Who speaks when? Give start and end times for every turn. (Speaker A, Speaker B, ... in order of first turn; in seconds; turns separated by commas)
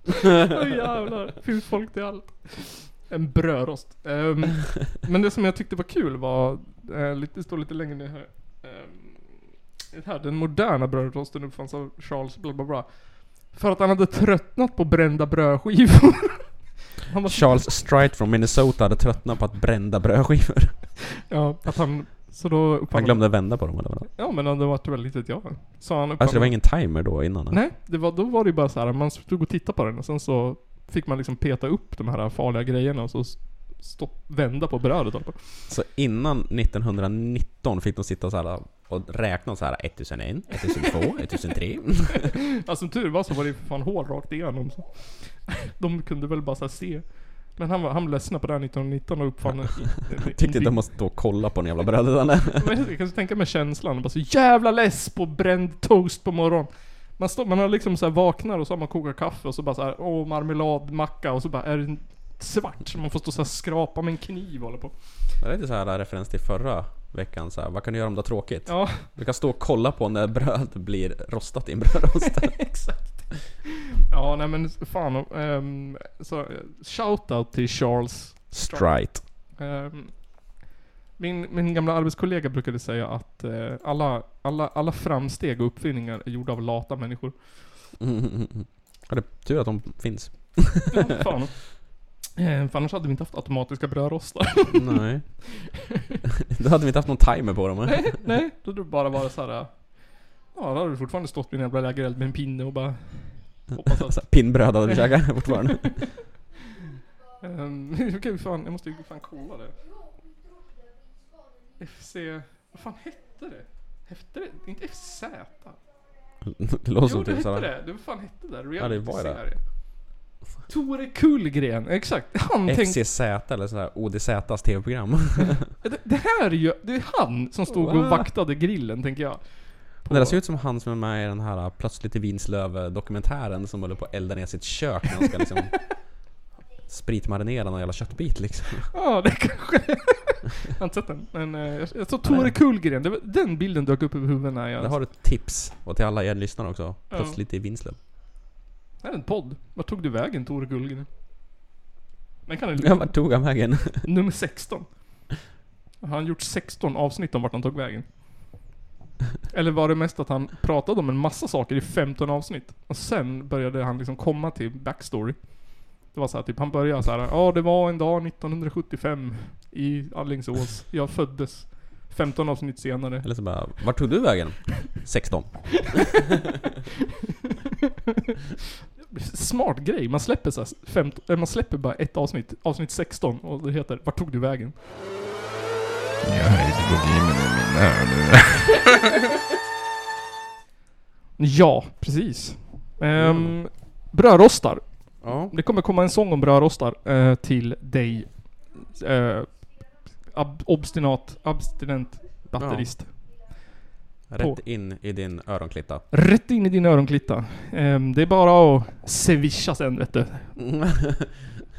Speaker A: 0.4-17.7, Speaker B: 17.3-20.8, Speaker A: 21.3-23.4, Speaker B: 22.9-24.1, Speaker A: 24.1-26.6, Speaker B: 26.2-27.6, Speaker A: 27.5-35.7, Speaker B: 35.7-42.3, Speaker A: 42.2-50.8, Speaker B: 49.5-52.7, Speaker A: 52.6-64.9, Speaker B: 65.4-72.6, Speaker A: 68.7-69.0, Speaker A: 72.6-73.3, Speaker A: 74.1-78.9, Speaker B: 78.5-79.2, Speaker A: 79.6-80.3, Speaker A: 81.2-87.4, Speaker B: 88.0-91.1, Speaker A: 90.9-91.8, Speaker A: 92.3-95.8, Speaker B: 94.7-95.4, Speaker B: 96.5-98.2, Speaker A: 97.9-104.3, Speaker B: 103.8-106.0, Speaker A: 105.5-105.9, Speaker A: 107.4-109.8, Speaker A: 111.8-115.8, Speaker B: 116.4-117.7, Speaker A: 117.0-119.6, Speaker B: 118.8-119.4, Speaker A: 120.7-123.0, Speaker B: 122.6-125.7, Speaker A: 125.8-130.3, Speaker B: 127.7-128.3, Speaker B: 130.1-135.8, Speaker B: 136.9-138.9, Speaker A: 138.9-144.9, Speaker B: 142.3-142.5, Speaker B: 144.8-148.0, Speaker A: 147.1-147.4, Speaker A: 149.0-151.1, Speaker A: 152.5-153.2, Speaker B: 152.8-154.1, Speaker A: 154.0-155.1, Speaker A: 156.0-158.1, Speaker A: 159.5-173.3, Speaker B: 173.2-176.2, Speaker A: 179.0-184.7, Speaker C: 186.2-188.8, Speaker A: 191.4-199.7, Speaker B: 193.2-193.6, Speaker B: 195.2-195.5, Speaker A: 200.3-203.2, Speaker B: 202.6-202.9, Speaker B: 204.3-206.0, Speaker A: 206.1-210.6, Speaker B: 210.6-211.3